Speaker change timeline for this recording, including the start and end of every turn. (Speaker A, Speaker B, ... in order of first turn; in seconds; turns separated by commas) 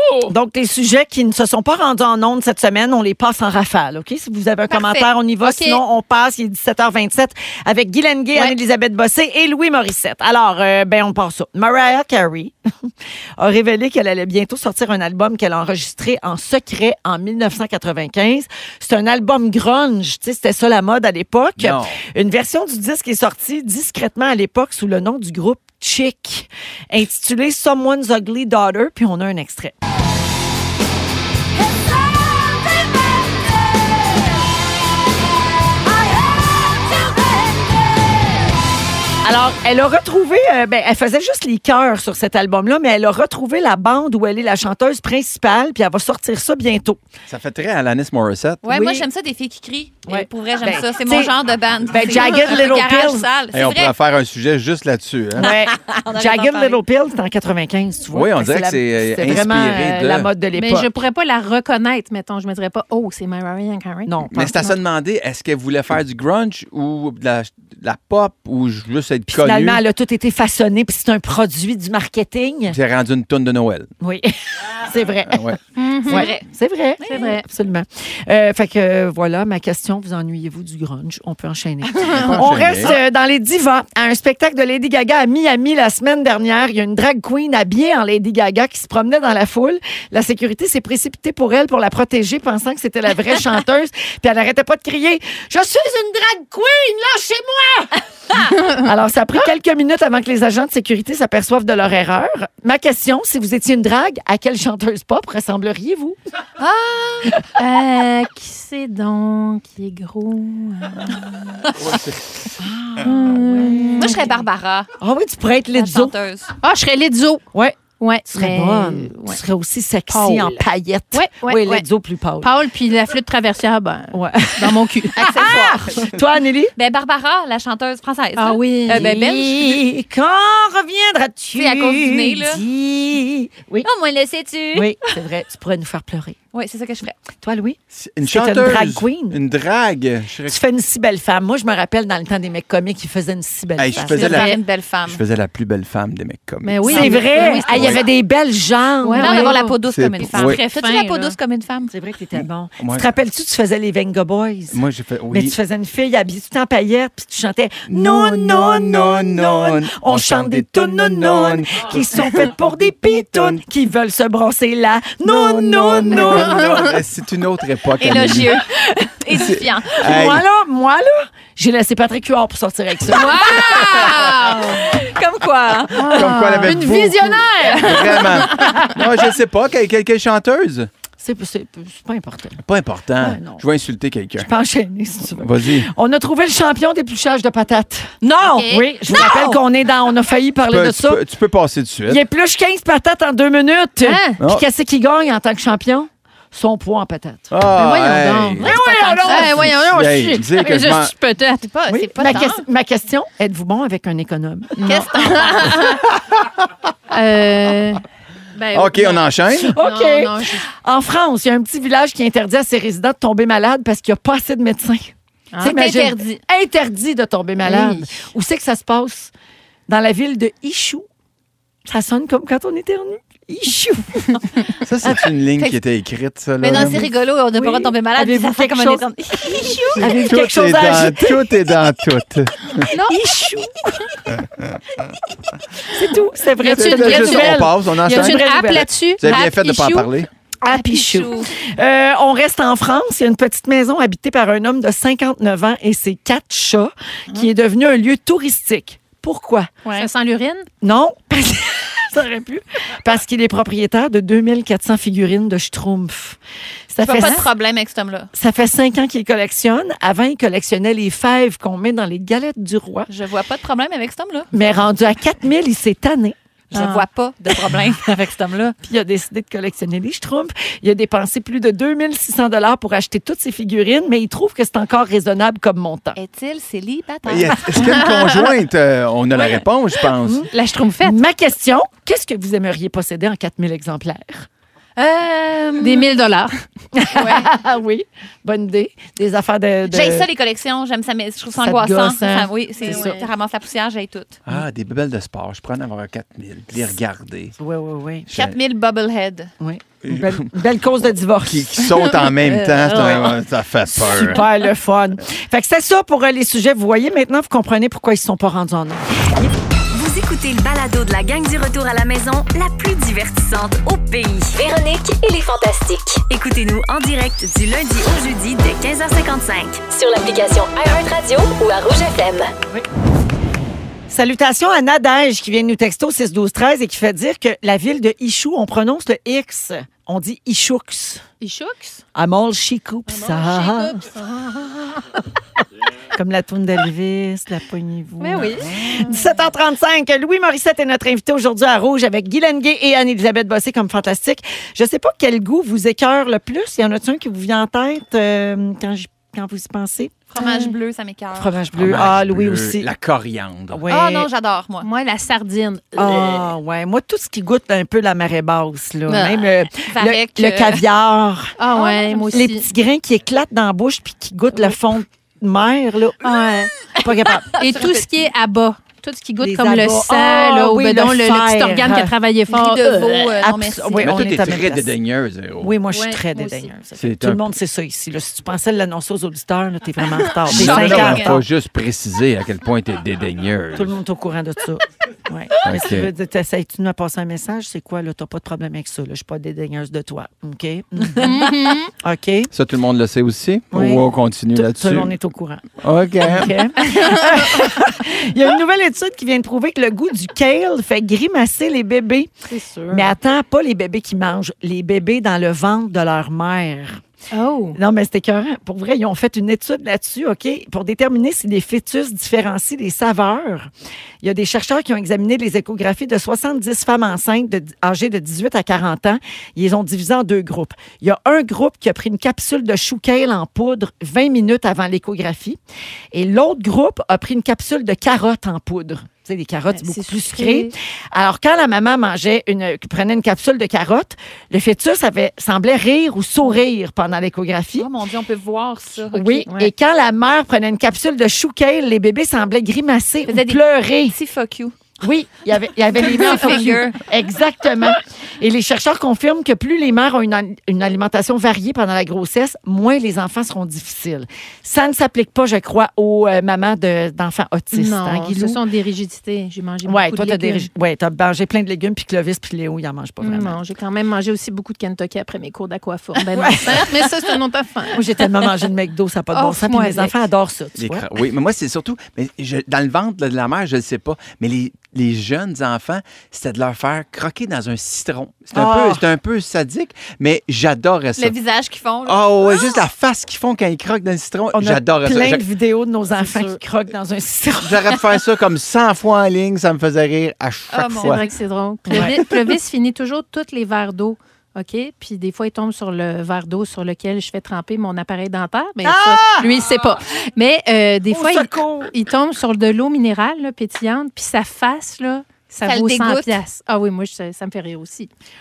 Speaker A: 0.2-29.7, Speaker B: 4.7-5.1, Speaker C: 5.4-5.8, Speaker D: 21.6-22.0, Speaker A: 39.2-47.0, Speaker D: 47.3-48.7, Speaker B: 48.6-53.9, Speaker A: 48.7-49.0, Speaker A: 50.0-51.3, Speaker A: 51.9-53.3, Speaker D: 53.5-55.5, Speaker A: 55.4-60.9, Speaker B: 55.4-56.8, Speaker D: 58.1-60.3, Speaker C: 60.5-64.7, Speaker A: 64.0-64.7, Speaker D: 64.3-69.8, Speaker A: 69.3-72.8, Speaker D: 72.7-73.9, Speaker A: 74.0-97.9, Speaker D: 75.3-75.6, Speaker C: 75.8-76.3, Speaker B: 76.1-76.4, Speaker B: 77.0-77.3, Speaker C: 77.0-77.4, Speaker D: 82.1-83.0, Speaker A: 98.5-106.2, Speaker B: 106.6-107.3, Speaker C: 107.6-111.3, Speaker D: 111.7-112.3, Speaker A: 112.6-114.3, Speaker C: 113.0-114.3, Speaker B: 114.0-114.9, Speaker A: 115.0-116.1, Speaker B: 115.7-116.5, Speaker C: 116.6-117.4, Speaker C: 118.0-119.4, Speaker A: 118.3-122.5, Speaker C: 120.1-121.9, Speaker C: 122.4-125.5, Speaker A: 124.1-126.7, Speaker B: 125.2-126.1, Speaker B: 126.8-129.8, Speaker C: 128.4-129.2, Speaker A: 128.9-133.9, Speaker B: 131.6-132.6, Speaker B: 133.8-135.1, Speaker A: 134.7-136.4, Speaker B: 136.5-137.2, Speaker A: 137.4-139.4, Speaker D: 137.9-140.6, Speaker A: 140.5-144.4, Speaker D: 143.8-144.6, Speaker B: 144.1-145.2, Speaker C: 144.2-144.6, Speaker D: 145.1-148.0, Speaker C: 146.6-148.0, Speaker A: 146.9-149.6, Speaker C: 149.0-151.4, Speaker B: 149.2-151.9, Speaker D: 149.9-150.6, Speaker A: 151.9-154.8, Speaker D: 152.4-153.1, Speaker D: 154.7-155.6, Speaker A: 155.3-166.9, Speaker D: 157.9-163.6, Speaker D: 165.2-168.6, Speaker C: 166.2-166.9, Speaker B: 168.0-170.1, Speaker D: 169.3-170.4, Speaker A: 170.0-173.7, Speaker B: 173.1-176.3, Speaker C: 173.1-174.9, Speaker C: 175.9-178.9, Speaker D: 176.0-180.9, Speaker A: 181.2-182.6, Speaker D: 182.6-184.5, Speaker A: 183.2-183.6, Speaker A: 184.4-191.2, Speaker D: 185.4-185.9, Speaker B: 188.2-189.6, Speaker C: 188.4-189.5, Speaker D: 190.7-192.2, Speaker A: 192.1-197.5, Speaker C: 194.0-194.4, Speaker D: 194.4-194.6, Speaker D: 197.5-201.1, Speaker C: 197.7-201.7, Speaker B: 198.6-199.7, Speaker B: 201.7-202.6, Speaker A: 201.9-204.9, Speaker C: 204.8-206.1, Speaker B: 204.9-205.8, Speaker C: 207.1-208.0, Speaker C: 208.6-210.6, Speaker D: 208.7-209.7, Speaker A: 209.6-219.3, Speaker C: 215.5-216.1, Speaker B: 215.6-216.3, Speaker C: 217.6-218.2, Speaker A: 219.9-221.1, Speaker A: 221.9-224.4, Speaker D: 224.8-227.0, Speaker B: 226.6-230.1, Speaker A: 227.5-231.5, Speaker C: 229.7-230.0, Speaker D: 230.2-232.9, Speaker C: 232.9-233.3, Speaker A: 232.9-233.7, Speaker A: 235.8-238.9, Speaker C: 236.6-240.1, Speaker D: 236.7-240.3, Speaker A: 240.6-249.7, Speaker B: 240.7-241.5, Speaker C: 249.9-250.7, Speaker A: 250.8-256.4, Speaker A: 256.9-257.4, Speaker B: 257.0-258.3, Speaker C: 257.2-257.4, Speaker A: 258.3-263.1, Speaker B: 263.1-264.5, Speaker A: 264.5-266.4, Speaker B: 266.7-268.8, Speaker C: 266.7-267.1, Speaker A: 268.8-276.2, Speaker B: 276.1-277.8, Speaker D: 277.2-280.5, Speaker C: 278.0-278.3, Speaker C: 280.5-281.2, Speaker A: 281.0-284.5, Speaker B: 285.0-286.1, Speaker C: 285.7-286.5, Speaker A: 286.9-290.3, Speaker B: 289.9-294.4, Speaker A: 291.6-293.2, Speaker C: 292.8-293.3, Speaker D: 294.5-297.6, Speaker A: 297.6-298.3, Speaker D: 298.3-298.6, Speaker B: 298.3-299.5, Speaker A: 299.6-302.2, Speaker D: 300.1-300.5, Speaker D: 301.4-304.4, Speaker A: 302.9-303.4, Speaker A: 303.9-309.5, Speaker E: 309.9-322.5, Speaker A: 324.1-331.2, Speaker C: 331.4-332.0, Speaker A: 332.1-334.1, Speaker C: 333.1-335.0, Speaker A: 336.1-350.2, Speaker C: 338.2-339.4, Speaker B: 350.3-351.6, Speaker C: 350.4-350.7, Speaker A: 351.3-352.9, Speaker D: 351.7-353.8, Speaker A: 353.7-354.3, Speaker B: 353.9-354.9, Speaker C: 354.8-356.5, Speaker A: 355.9-361.7, Speaker C: 359.1-359.4, Speaker B: 359.8-360.8, Speaker C: 361.6-362.6, Speaker B: 361.8-362.3, Speaker A: 362.3-367.9, Speaker C: 366.2-366.7, Speaker B: 367.6-368.1, Speaker C: 367.6-373.0, Speaker A: 369.4-372.1, Speaker B: 372.5-374.4, Speaker A: 372.9-374.9, Speaker D: 374.0-375.7, Speaker A: 375.6-381.4, Speaker C: 375.9-376.7, Speaker D: 377.0-377.6, Speaker B: 380.5-381.4, Speaker D: 380.5-384.0, Speaker A: 383.8-392.5, Speaker D: 385.6-386.1, Speaker C: 391.2-391.9, Speaker D: 392.5-395.1, Speaker A: 393.7-402.3, Speaker D: 395.8-396.6, Speaker C: 402.5-403.1, Speaker A: 402.9-407.0, Speaker C: 407.3-407.8, Speaker A: 407.7-413.7, Speaker A: 414.2-425.6, Speaker A: 426.1-437.9, Speaker C: 429.7-430.7, Speaker B: 437.8-439.5, Speaker A: 439.1-444.1, Speaker B: 443.3-444.8, Speaker A: 445.0-458.6, Speaker B: 445.9-447.0, Speaker C: 457.7-460.7, Speaker A: 459.8-463.6, Speaker C: 463.2-468.2, Speaker A: 466.2-467.3, Speaker A: 467.9-471.1, Speaker C: 469.3-470.2, Speaker D: 470.8-481.4, Speaker A: 478.6-479.0, Speaker B: 481.2-482.6, Speaker D: 482.1-485.4, Speaker A: 484.5-488.1, Speaker D: 487.6-491.2, Speaker B: 490.7-491.3, Speaker C: 491.0-508.1, Speaker A: 491.9-492.1, Speaker D: 491.9-492.2, Speaker A: 498.8-499.5, Speaker A: 501.1-501.9, Speaker B: 505.6-506.4